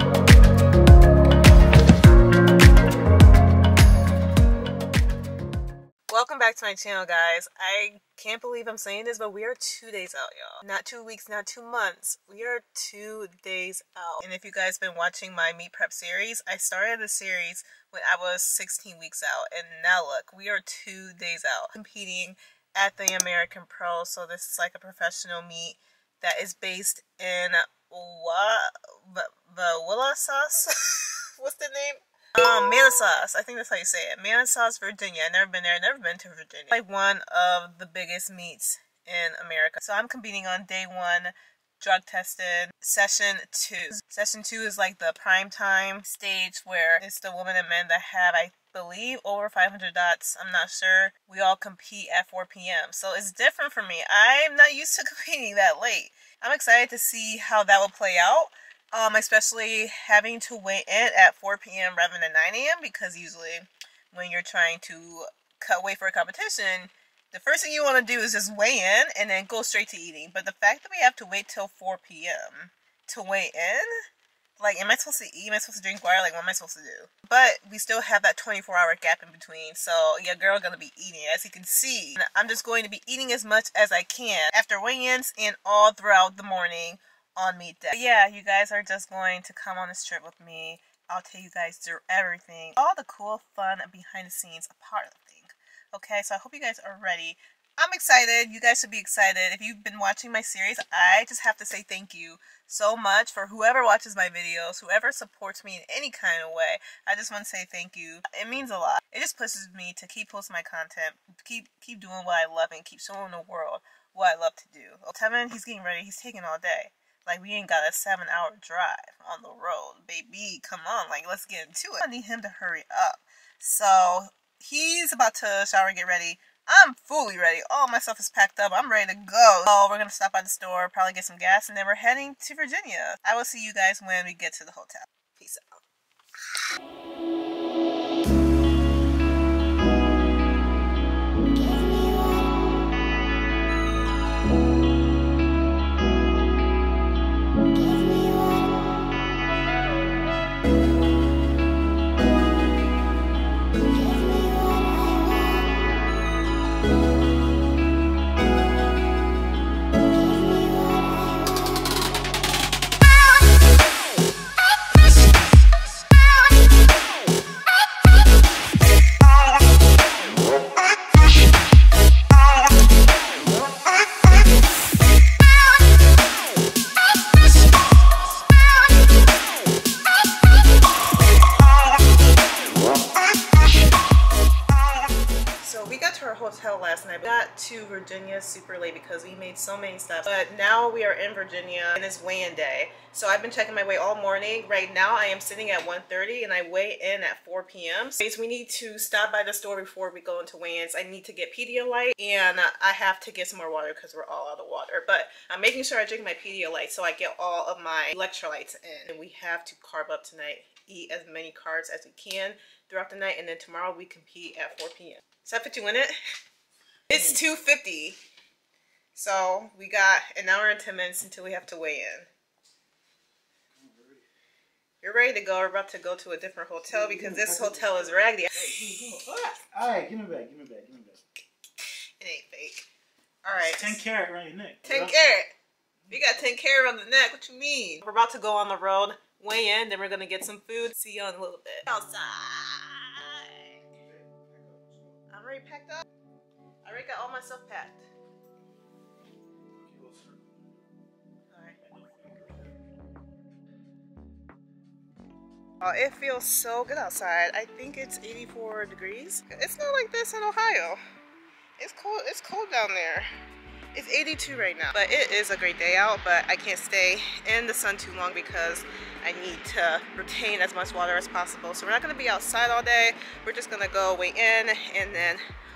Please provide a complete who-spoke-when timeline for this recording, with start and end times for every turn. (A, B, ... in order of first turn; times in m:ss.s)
0:06.1-1:13.9 A
1:14.6-2:15.8 A
3:05.6-3:36.2 A
3:37.1-3:38.2 A
3:39.1-3:42.3 A
3:43.8-3:44.2 B
3:45.0-3:48.9 A
3:46.9-3:51.2 B
3:52.2-3:52.9 A
3:53.4-3:54.0 A
3:53.5-3:55.2 B
3:54.8-3:55.5 A
3:56.1-4:03.8 A
4:04.6-4:04.9 B
4:05.3-4:06.0 A
4:06.8-4:08.1 A
4:09.9-4:10.4 B
4:11.5-4:11.8 A
4:15.8-4:21.0 A
4:21.8-4:23.3 A
4:23.9-4:35.4 A